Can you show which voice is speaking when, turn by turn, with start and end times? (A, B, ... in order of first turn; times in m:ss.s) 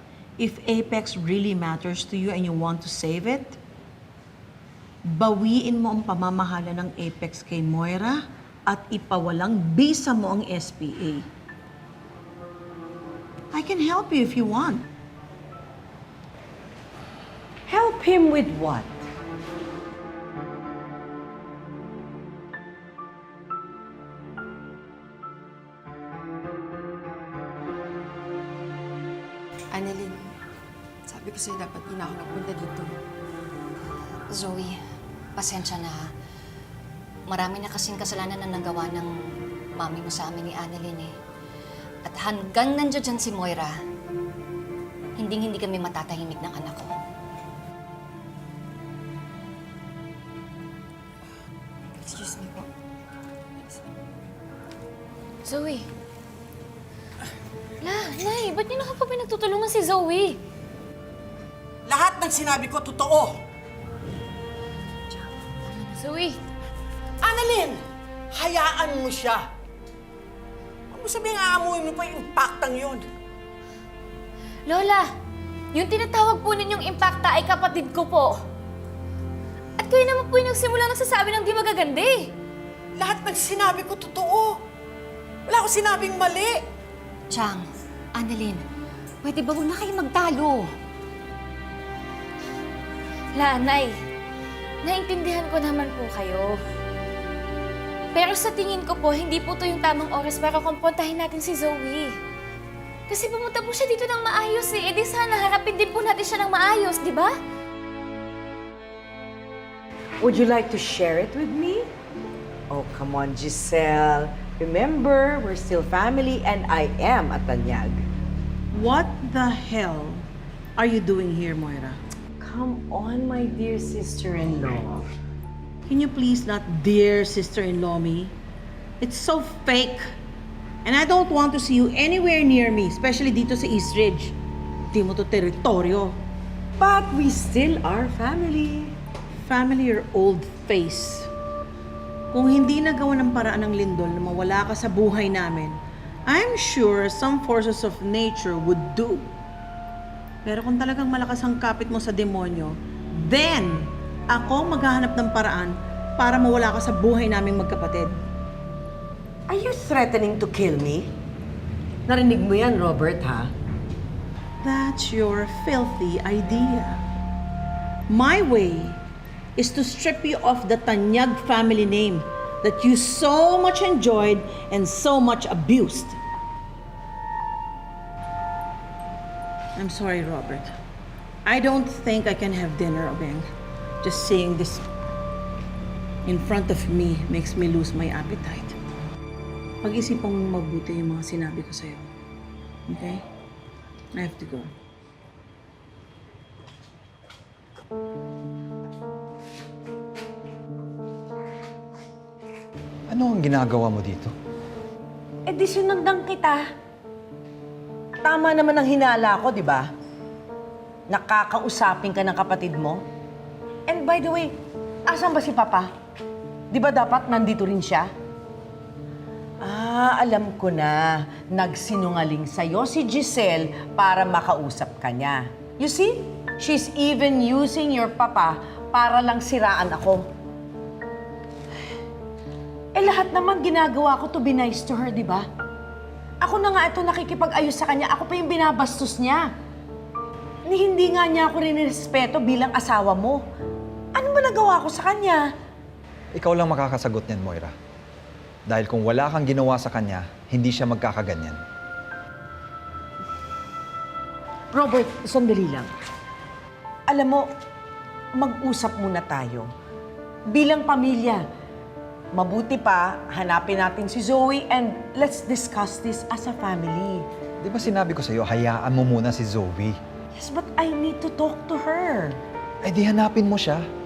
0:00.4-0:03.6 A
0:05.0-0:11.2 A
0:13.5-0:14.8 A
0:17.7-0:19.0 B
0:29.7-0:30.4 C
0:31.1-0:33.0 C
0:34.3-0:34.8 D
0:35.4-0:36.1 D
0:37.3-0:41.1 D
0:42.0-0:43.8 D
0:45.2-0:46.9 D
0:52.0-0:52.7 C
0:55.4-0:55.9 E
0:57.8-1:00.4 E
1:01.8-1:03.4 F
1:05.4-1:06.4 E
1:07.2-1:09.5 F
1:10.9-1:13.1 F
1:14.6-1:15.1 E
1:15.7-1:18.4 E
1:19.8-1:22.3 E
1:22.9-1:24.6 F
1:25.4-1:26.7 F
1:27.3-1:28.6 D
1:29.2-1:30.7 D
1:33.3-1:34.0 E
1:34.8-1:36.6 E
1:38.1-1:42.2 E
1:43.1-1:47.4 E
1:50.2-1:51.9 B
1:52.7-1:58.0 B
1:58.7-2:02.0 A
2:02.4-2:05.1 B
2:05.8-2:08.3 A
2:09.0-2:10.1 A
2:10.8-2:14.3 A
2:14.9-2:16.2 A
2:16.8-2:18.9 B
2:19.4-2:21.3 A
2:22.3-2:29.2 A
2:30.4-2:38.2 A
2:39.5-2:41.1 B
2:42.1-2:43.5 B
2:44.6-2:47.0 A
2:48.1-2:49.0 A
2:49.6-2:56.2 A
2:59.8-3:00.7 A
3:01.4-3:03.5 A
3:04.0-3:04.8 A
3:06.2-3:08.8 A
3:09.8-3:12.1 A
3:12.9-3:13.2 A
3:14.1-3:14.7 A
3:23.1-3:24.3 G
3:25.4-3:26.6 B
3:28.2-3:29.9 B
3:31.1-3:33.0 B
3:33.9-3:34.5 B
3:35.0-3:35.9 B
3:36.7-3:38.1 B
3:39.6-3:50.2 B
3:52.9-3:55.4 B
3:56.4-3:59.5 B
4:00.6-4:03.4 B
4:04.1-4:05.5 B
4:06.3-4:07.7 G
4:08.7-4:11.6 G
4:14.7-4:15.9 B
4:17.1-4:17.5 B
4:18.3-4:19.7 B
4:20.4-4:21.4 B
4:22.3-4:27.2 B
4:27.6-4:30.0 G
4:30.3-4:32.4 B
4:32.8-4:33.8 G